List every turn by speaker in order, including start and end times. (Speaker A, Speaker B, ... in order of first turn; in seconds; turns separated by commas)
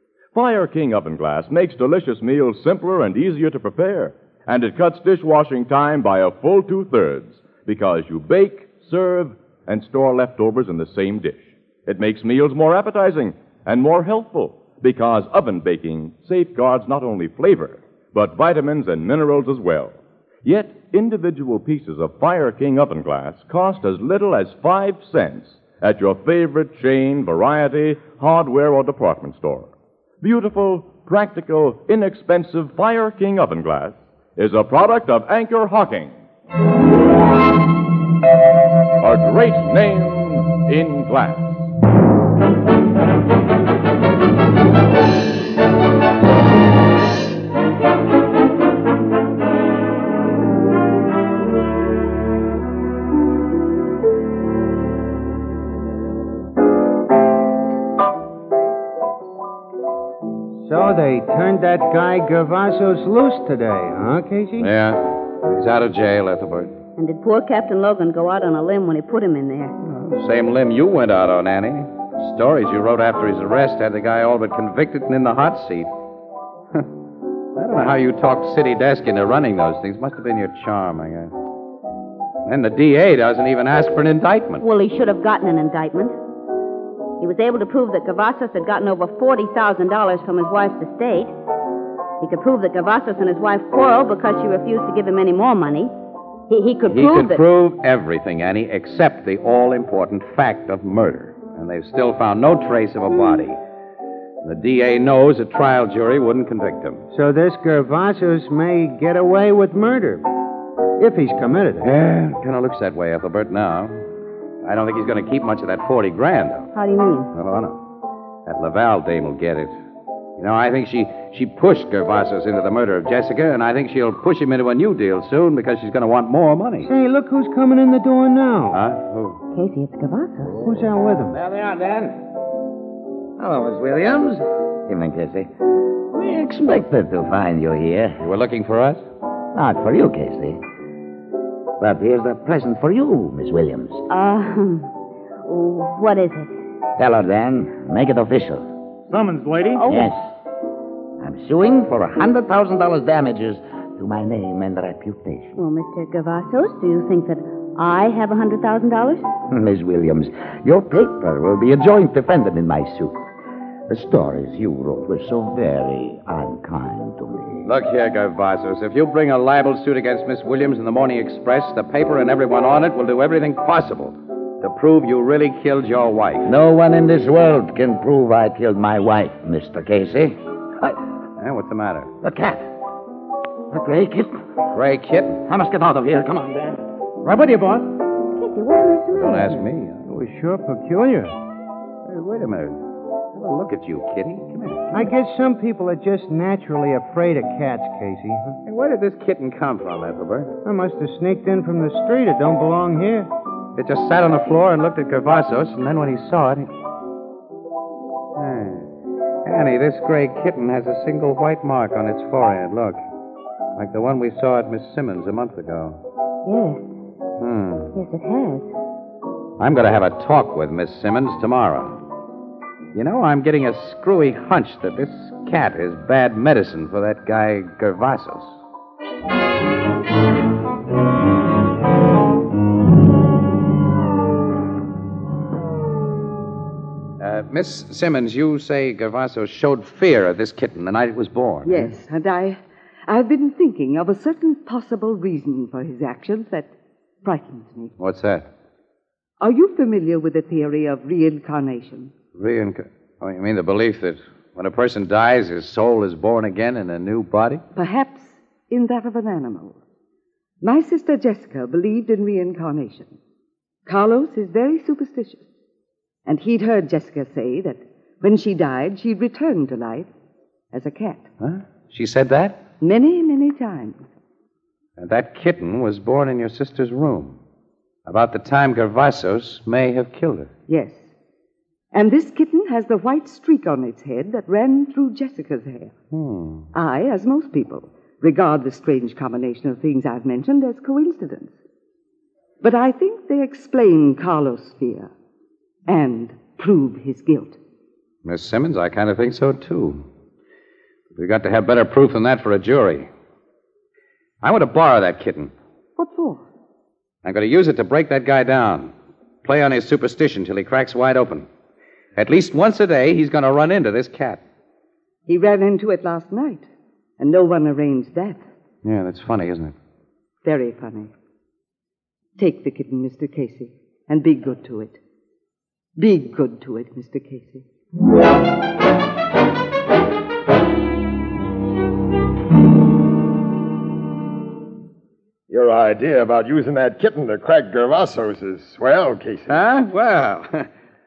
Speaker A: 0.3-29.7, Speaker A: 30.2-36.2, Speaker A: 39.0-41.6, Speaker B: 60.6-64.7, Speaker C: 64.6-66.7, Speaker D: 67.0-69.7, Speaker C: 69.8-75.9, Speaker C: 77.5-81.3, Speaker C: 82.5-84.6, Speaker D: 84.6-86.2, Speaker D: 87.2-91.3, Speaker D: 92.2-95.9, Speaker D: 96.5-97.4, Speaker C: 96.8-103.6, Speaker C: 104.4-107.0, Speaker B: 107.1-110.2, Speaker B: 111.0-111.9, Speaker C: 111.8-114.0, Speaker C: 114.6-116.7, Speaker D: 116.7-117.3, Speaker C: 117.3-117.8, Speaker C: 118.5-119.7, Speaker C: 120.4-126.9, Speaker B: 126.8-128.8, Speaker C: 128.7-129.4, Speaker D: 129.5-130.7, Speaker B: 130.6-131.4, Speaker E: 131.3-132.2, Speaker E: 133.4-135.5, Speaker E: 136.1-138.2, Speaker C: 138.2-139.0, Speaker E: 139.5-140.6, Speaker E: 141.8-144.0, Speaker D: 144.1-144.9, Speaker D: 145.4-146.6, Speaker E: 147.0-148.7, Speaker D: 149.7-150.1, Speaker E: 149.8-150.2, Speaker E: 151.2-155.6, Speaker D: 155.6-159.3, Speaker E: 159.5-163.2, Speaker E: 163.9-167.7, Speaker C: 167.6-176.5, Speaker E: 176.4-181.0, Speaker C: 181.4-182.1, Speaker E: 182.2-182.6, Speaker E: 183.7-184.4, Speaker C: 184.7-185.4, Speaker E: 185.4-186.8, Speaker D: 188.3-189.7, Speaker C: 189.1-190.0, Speaker B: 190.0-191.3, Speaker C: 192.0-195.1, Speaker B: 194.9-198.6, Speaker C: 198.6-200.5, Speaker B: 200.6-203.3, Speaker C: 203.8-206.7, Speaker C: 208.3-208.9, Speaker C: 209.4-213.0, Speaker C: 213.8-216.0, Speaker D: 216.4-216.9, Speaker C: 217.4-217.9, Speaker D: 217.9-218.7, Speaker C: 219.6-222.0, Speaker C: 222.9-228.6, Speaker C: 237.2-241.9, Speaker F: 241.6-246.7, Speaker F: 247.2-247.9, Speaker C: 248.0-248.5, Speaker F: 249.4-252.1, Speaker C: 252.3-257.6, Speaker F: 257.7-259.8, Speaker F: 260.6-263.1, Speaker F: 263.9-265.4, Speaker F: 266.2-270.1, Speaker F: 270.7-271.3, Speaker C: 271.4-272.6, Speaker F: 272.8-274.0, Speaker C: 275.0-277.4, Speaker C: 278.1-280.5, Speaker F: 280.7-281.1, Speaker F: 281.9-285.9, Speaker C: 286.1-286.7, Speaker F: 286.7-291.6, Speaker F: 292.6-295.1, Speaker F: 295.9-297.6, Speaker C: 298.2-300.0, Speaker C: 301.1-303.1, Speaker C: 304.4-305.5, Speaker F: 306.0-306.4, Speaker C: 307.2-308.9, Speaker C: 309.4-311.5, Speaker C: 312.1-314.4, Speaker F: 315.3-316.7, Speaker F: 317.2-318.4, Speaker C: 318.8-319.7, Speaker F: 320.4-321.1, Speaker F: 322.4-325.0, Speaker F: 326.0-327.6, Speaker G: 335.5-339.6, Speaker C: 339.5-340.7